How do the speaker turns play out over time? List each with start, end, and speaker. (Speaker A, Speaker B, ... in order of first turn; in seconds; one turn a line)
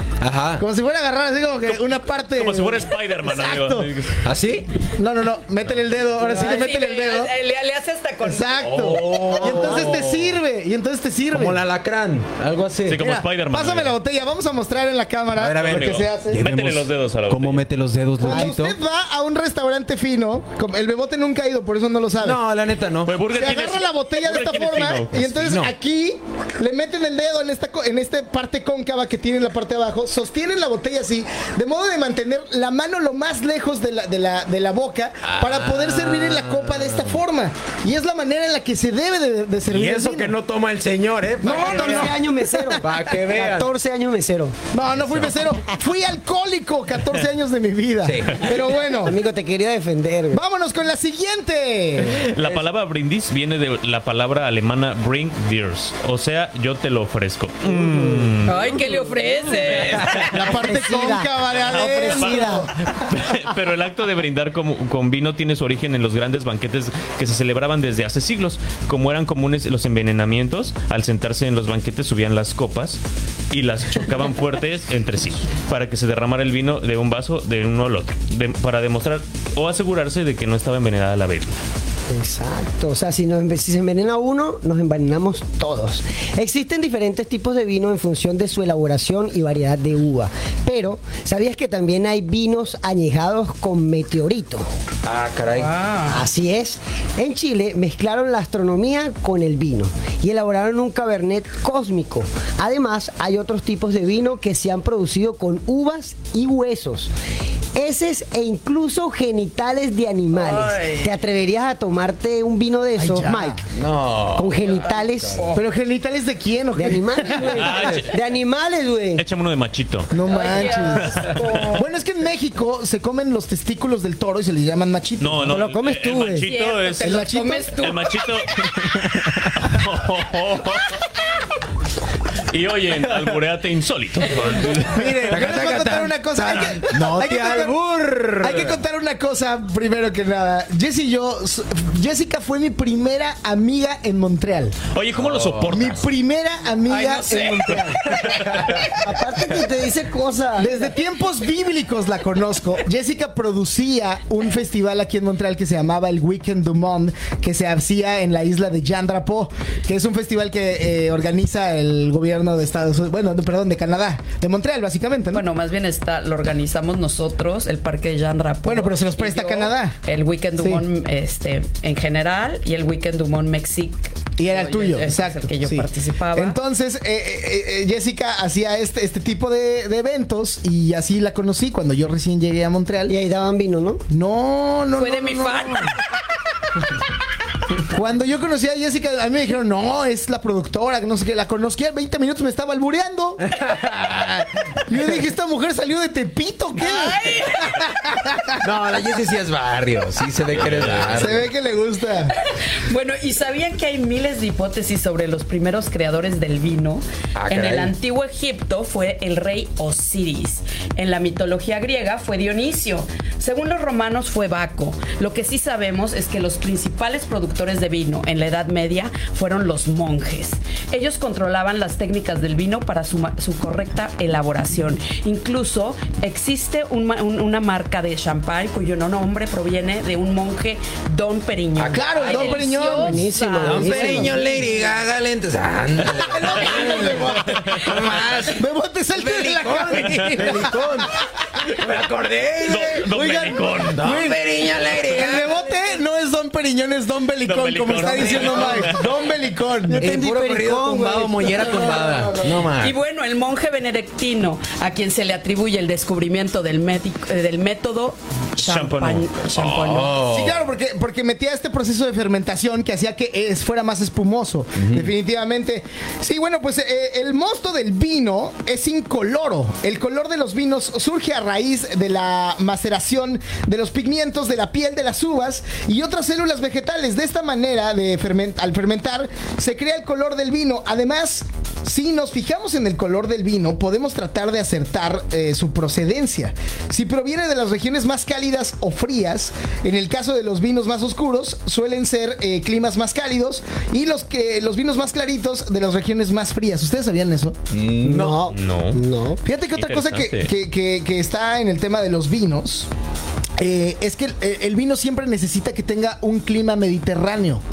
Speaker A: 0.2-0.6
Speaker B: 0.6-3.9
Speaker C: 1.7-4.2
Speaker A: 4.2-4.7
Speaker B: 5.0-7.3
Speaker D: 6.2-8.9
Speaker B: 8.2-11.6
Speaker A: 8.6-10.4
Speaker A: 11.3-13.0
Speaker C: 12.9-13.9
Speaker B: 13.0-16.4
Speaker A: 15.3-18.8
Speaker C: 15.6-17.6
Speaker B: 18.2-22.4
Speaker A: 22.2-23.1
Speaker C: 23.0-25.2
Speaker B: 23.3-40.3
Speaker A: 25.1-25.7
Speaker A: 35.2-37.2
Speaker A: 39.7-42.2
Speaker B: 41.4-42.8
Speaker E: 41.4-44.5
Speaker A: 42.8-43.7
Speaker B: 44.7-49.2
Speaker C: 45.0-45.3
Speaker A: 48.0-48.4
Speaker E: 49.0-50.4
Speaker B: 50.3-52.2
Speaker C: 52.0-58.6
Speaker A: 52.2-52.6
Speaker E: 58.2-58.8
Speaker D: 58.4-60.1
Speaker C: 59.8-60.3
Speaker B: 60.3-62.7
Speaker E: 60.6-62.7
Speaker C: 61.6-73.0
Speaker C: 73.5-81.6
Speaker E: 82.1-94.7
Speaker A: 95.0-95.7
Speaker D: 95.5-96.2
Speaker E: 96.1-107.1
Speaker E: 107.7-113.6
Speaker D: 110.3-111.1
Speaker B: 113.0-113.5
Speaker A: 113.7-115.4
Speaker E: 114.3-115.5
Speaker D: 115.3-115.6
Speaker B: 115.5-118.0
Speaker E: 116.7-119.2
Speaker C: 117.4-118.2
Speaker C: 119.2-120.1
Speaker B: 120.1-121.1
Speaker D: 120.3-121.8
Speaker C: 121.0-121.6
Speaker B: 121.7-125.6
Speaker C: 125.2-131.0
Speaker E: 125.5-126.5
Speaker D: 126.4-128.1
Speaker B: 127.0-127.8
Speaker C: 132.5-135.4
Speaker B: 134.9-137.8
Speaker A: 135.3-138.8
Speaker B: 138.4-144.8
Speaker C: 144.9-146.1
Speaker A: 145.2-145.8
Speaker B: 145.7-148.6
Speaker C: 146.9-148.9
Speaker A: 147.0-147.3
Speaker A: 148.2-148.8
Speaker E: 149.0-150.8
Speaker B: 150.6-165.4
Speaker D: 165.3-176.6
Speaker B: 168.6-169.9
Speaker B: 170.6-170.8
Speaker B: 174.4-183.2
Speaker E: 183.1-184.0
Speaker B: 184.1-185.9
Speaker D: 185.0-186.0
Speaker B: 187.8-193.5
Speaker A: 193.4-194.5
Speaker B: 194.9-198.6
Speaker D: 196.8-197.7
Speaker A: 198.6-201.5
Speaker C: 200.5-201.3
Speaker B: 201.1-202.3
Speaker D: 202.4-234.9
Speaker A: 207.3-207.9
Speaker A: 231.8-232.3
Speaker B: 231.8-233.3
Speaker E: 232.9-234.4
Speaker A: 233.6-245.6
Speaker B: 236.2-237.8
Speaker D: 236.8-237.1
Speaker C: 237.5-237.8
Speaker B: 238.5-241.1
Speaker C: 239.9-240.5
Speaker C: 242.6-244.3
Speaker B: 243.1-244.4
Speaker B: 245.0-250.1
Speaker C: 247.4-249.1
Speaker A: 248.0-248.9
Speaker E: 249.9-252.1
Speaker A: 250.0-253.0
Speaker D: 252.8-260.2
Speaker C: 258.6-259.3
Speaker A: 259.5-260.6
Speaker B: 260.2-297.6
Speaker A: 264.8-265.1
Speaker A: 297.7-298.5
Speaker E: 298.0-299.4
Speaker C: 298.5-299.0
Speaker B: 299.4-302.9
Speaker C: 299.7-300.5
Speaker B: 303.6-307.6